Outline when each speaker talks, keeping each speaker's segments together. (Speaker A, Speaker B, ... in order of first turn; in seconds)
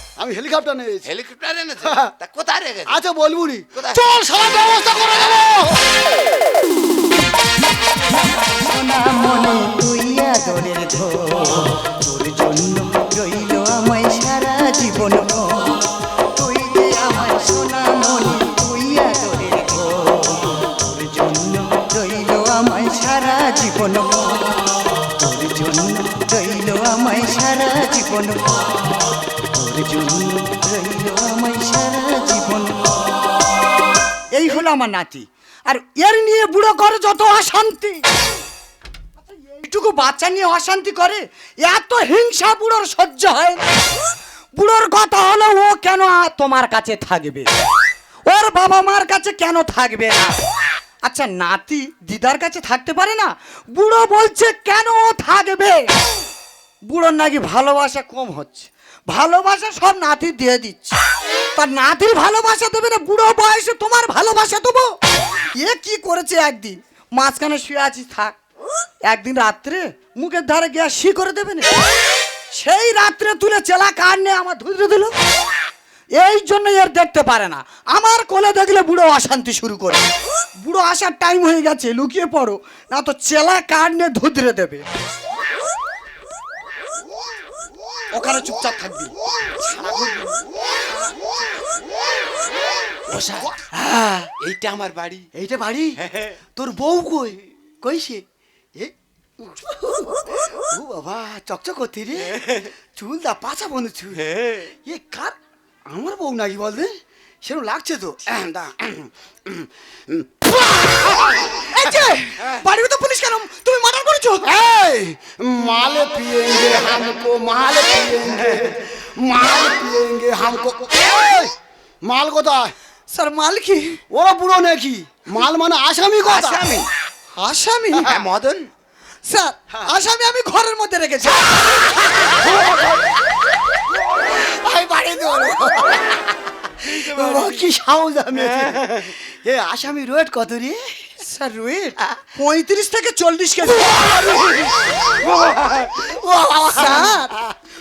Speaker A: 0.2-1.1, 1.8-2.1, 2.9-5.8, 93.6-94.3, 95.3-96.0, 96.6-98.2, 98.8-100.2, 100.7-102.4, 103.0-104.2, 104.8-105.4, 105.9-111.7, 114.4-122.7, 124.1-126.7, 127.9-128.2, 132.2-133.1, 134.3-141.1, 143.7-147.5
Speaker B: 1.1-3.0, 5.1-5.6, 89.8-90.3, 93.1-93.5, 94.4-95.3, 104.2-104.7, 126.3-126.9, 128.1-128.7, 137.1-137.6, 138.4-139.0, 145.2-145.9
Speaker C: 8.1-15.8, 16.4-24.6, 25.2-28.5, 29.5-33.0, 34.3-38.0, 39.5-43.6, 44.5-47.5, 48.3-50.3, 51.0-55.9, 56.9-61.0, 61.6-64.9, 65.5-68.3, 69.1-71.7, 72.5-75.1, 76.2-80.1, 80.6-84.8, 88.1-89.1, 111.0-114.5, 123.1-124.0, 127.4-128.1, 129.3-132.1, 141.2-143.9, 146.7-147.4